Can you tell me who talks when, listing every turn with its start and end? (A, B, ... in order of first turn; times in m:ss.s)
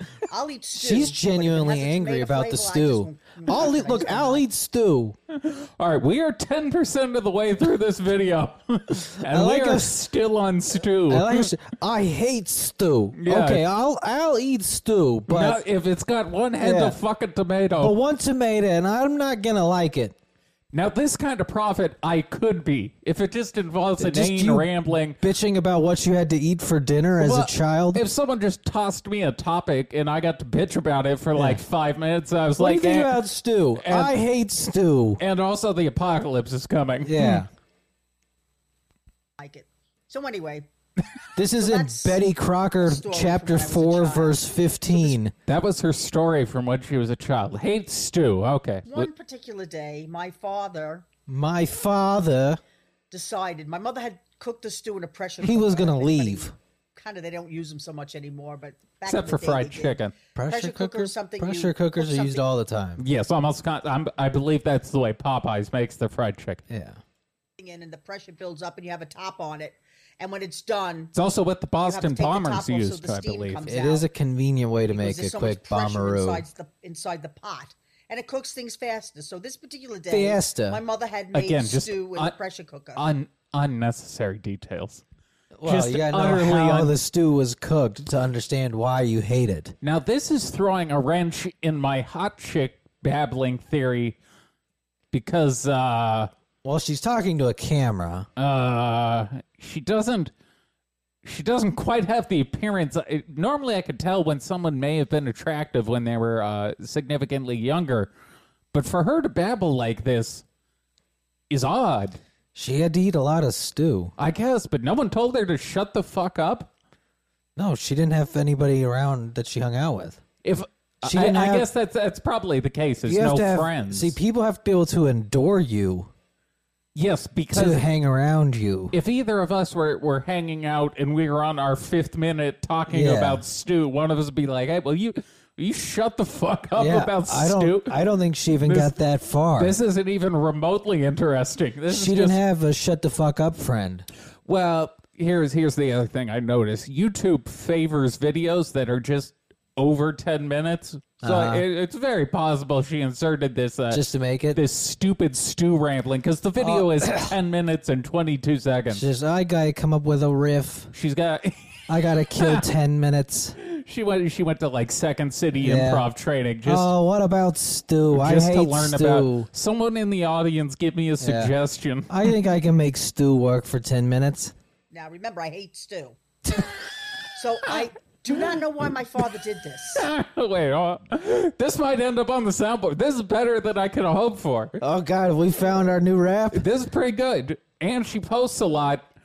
0:00.3-0:04.4 A
0:00.8-0:05.1 B
0:05.3-0:11.5 C
0:09.2-0:09.9 B
0:11.1-0:15.6 B
0:13.2-0:13.6 C
0:15.3-0:17.9 C
0:16.6-0:17.0 B
0:17.8-0:20.2 B
0:20.7-0:25.2 C
0:24.0-0:28.0 B
0:27.2-0:33.2 C
0:31.3-0:31.6 B
0:32.6-0:35.2 B
0:33.8-0:34.2 C
0:35.2-0:37.4 C
0:37.0-0:37.5 B
0:39.4-0:40.7 A
0:41.4-0:45.3 B
0:41.6-0:42.2 A
0:42.8-0:44.4 A
0:45.5-0:49.1 C
0:48.9-0:51.0 A
0:51.3-0:52.6 B
0:53.1-1:02.4 A
0:55.4-0:56.5 B
0:59.0-1:00.1 C
1:00.3-1:03.0 B
1:03.0-1:06.6 C
1:06.7-1:07.0 B
1:07.6-1:11.1 A
1:11.1-1:13.6 C
1:11.8-1:14.0 A
1:13.6-1:16.4 B
1:14.9-1:23.0 A
1:20.1-1:20.8 B
1:21.3-1:22.3 C
1:23.0-1:25.0 C
1:25.6-1:29.7 B
1:25.6-1:26.9 C
1:29.8-1:34.2 C
1:35.1-1:36.3 C
1:36.6-1:38.3 B
1:38.4-1:40.3 C
1:41.2-1:48.1 C
1:48.7-1:50.4 C
1:51.5-1:52.2 C
1:52.5-1:54.1 B
1:54.2-1:56.7 C
1:57.6-2:00.2 B
2:00.4-2:04.1 C
2:01.0-2:01.7 B
2:03.0-2:06.1 B
2:06.9-2:07.8 C
2:07.5-2:09.0 B
2:08.9-2:18.0 C
2:12.9-2:13.4 B
2:16.8-2:19.7 B
2:18.6-2:18.9 C
2:19.6-2:22.4 C
2:21.9-2:24.1 B
2:24.4-2:39.0 C
2:31.2-2:31.6 B
2:33.9-2:34.6 B
2:36.6-2:37.3 B
2:38.9-2:40.9 B
2:40.9-2:42.6 C
2:41.9-2:43.6 B
2:43.6-2:46.9 C
2:45.6-2:46.1 B
2:46.6-2:49.5 B
2:48.1-2:52.2 C
2:51.2-2:51.5 B
2:52.1-2:54.5 B
2:54.9-2:56.2 A
2:57.3-3:00.1 A
2:59.9-3:04.7 C
3:04.8-3:06.6 B
3:06.5-3:09.0 C